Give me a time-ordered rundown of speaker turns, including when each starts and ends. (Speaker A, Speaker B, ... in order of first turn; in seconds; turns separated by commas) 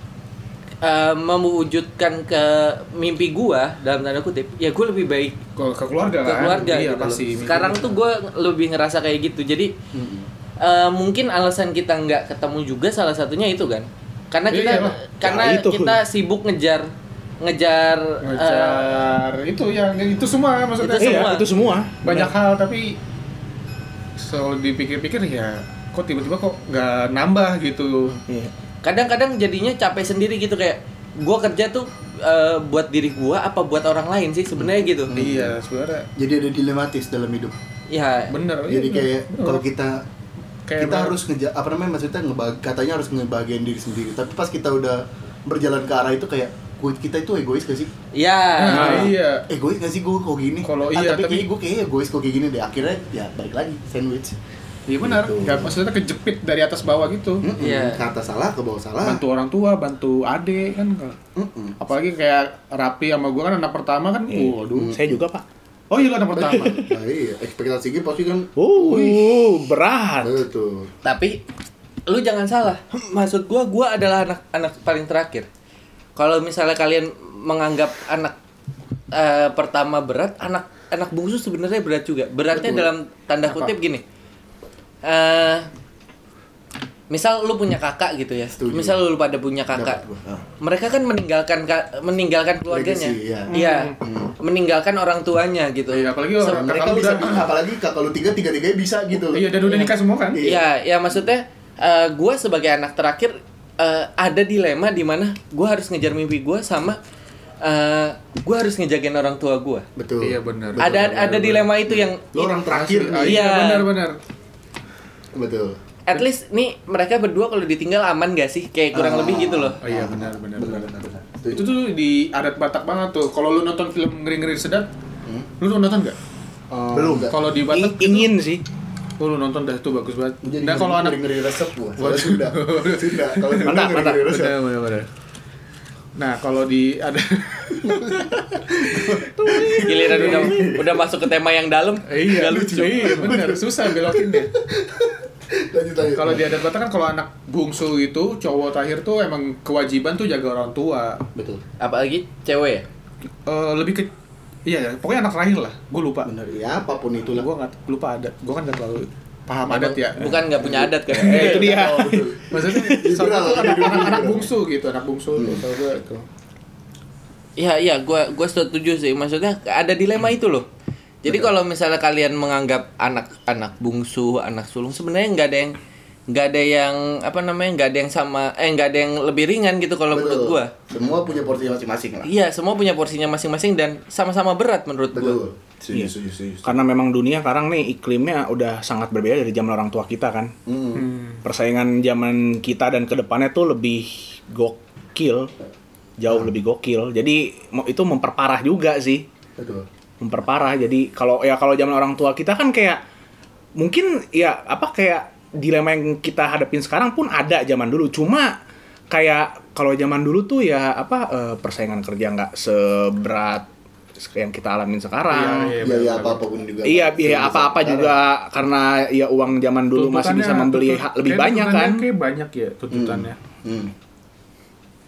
Speaker A: 0.8-5.4, Speaker B: 5.5-8.0, Speaker A: 6.2-9.7, Speaker C: 9.9-10.3, Speaker A: 10.6-16.9, Speaker B: 14.5-15.0, Speaker D: 15.2-16.0, Speaker A: 17.4-19.0, Speaker B: 18.2-21.4, Speaker A: 20.8-21.5, Speaker D: 21.0-22.3, Speaker B: 22.0-22.9, Speaker B: 24.2-28.2, Speaker D: 28.3-28.5, Speaker A: 28.8-35.1, Speaker C: 34.6-35.5, Speaker B: 35.1-36.1, Speaker C: 36.1-37.5, Speaker A: 37.9-38.3, Speaker B: 38.3-39.6, Speaker C: 38.7-40.0, Speaker B: 40.7-41.2, Speaker C: 40.8-47.9, Speaker A: 48.1-49.1, Speaker B: 48.6-49.5, Speaker D: 48.7-49.1, Speaker C: 49.5-54.4, Speaker B: 50.6-51.5, Speaker B: 54.9-57.4, Speaker C: 55.0-55.8, Speaker C: 57.4-59.2, Speaker A: 57.5-58.0, Speaker B: 59.0-61.2, Speaker C: 61.4-61.8, Speaker B: 61.8-64.8, Speaker D: 64.3-65.4, Speaker C: 64.7-65.2, Speaker B: 65.9-66.8, Speaker C: 66.3-69.4, Speaker D: 66.5-66.9, Speaker D: 68.5-70.4, Speaker C: 70.2-70.9, Speaker A: 71.0-71.4, Speaker A: 72.1-75.5, Speaker A: 76.2-78.3, Speaker A: 79.1-84.0, Speaker C: 82.5-82.9, Speaker B: 83.5-83.7, Speaker A: 85.0-85.7, Speaker A: 87.1-90.0, Speaker C: 88.6-89.0, Speaker C: 89.7-90.4, Speaker A: 90.6-96.7, Speaker C: 92.7-94.3, Speaker B: 93.5-94.0, Speaker B: 95.9-97.5, Speaker C: 96.4-99.5, Speaker B: 99.3-100.4, Speaker A: 99.7-107.0, Speaker C: 100.3-100.6, Speaker A: 107.6-109.8, Speaker C: 110.0-113.5, Speaker B: 110.2-110.8, Speaker A: 110.8-112.5, Speaker B: 112.6-114.2, Speaker A: 113.2-113.9, Speaker C: 115.3-115.8, Speaker A: 116.1-119.8, Speaker C: 118.9-121.7, Speaker B: 119.8-120.9, Speaker B: 121.5-124.9, Speaker B: 125.6-126.2, Speaker C: 126.7-127.4, Speaker D: 127.1-128.6, Speaker B: 127.2-128.3, Speaker B: 129.2-131.2, Speaker C: 130.4-134.6, Speaker B: 132.0-135.1, Speaker D: 133.7-134.2, Speaker B: 136.2-138.3, Speaker C: 137.8-141.0, Speaker A: 139.8-143.2, Speaker B: 139.8-140.6, Speaker B: 142.1-144.5, Speaker C: 142.3-146.6, Speaker B: 146.1-151.2, Speaker C: 151.3-151.6, Speaker A: 151.8-152.8, Speaker B: 153.4-154.1, Speaker B: 154.7-156.3, Speaker C: 156.2-157.5, Speaker B: 157.3-160.4, Speaker A: 159.7-161.8, Speaker C: 160.5-164.5, Speaker D: 161.1-164.1, Speaker B: 161.3-166.2, Speaker C: 165.3-165.6, Speaker A: 167.6-170.7, Speaker A: 171.2-175.8, Speaker C: 171.2-171.5, Speaker A: 176.3-180.7, Speaker C: 180.1-182.3, Speaker A: 182.2-185.4, Speaker C: 185.1-186.8, Speaker D: 186.6-190.5, Speaker C: 190.7-191.1, Speaker B: 190.9-191.4, Speaker D: 191.4-195.5, Speaker D: 196.2-199.2, Speaker C: 196.3-196.5, Speaker C: 199.6-199.9, Speaker D: 200.2-203.0, Speaker D: 203.8-208.6, Speaker D: 209.1-215.8, Speaker B: 215.3-216.4, Speaker C: 215.8-218.2, Speaker D: 216.8-222.0, Speaker B: 219.9-223.4, Speaker C: 222.9-223.9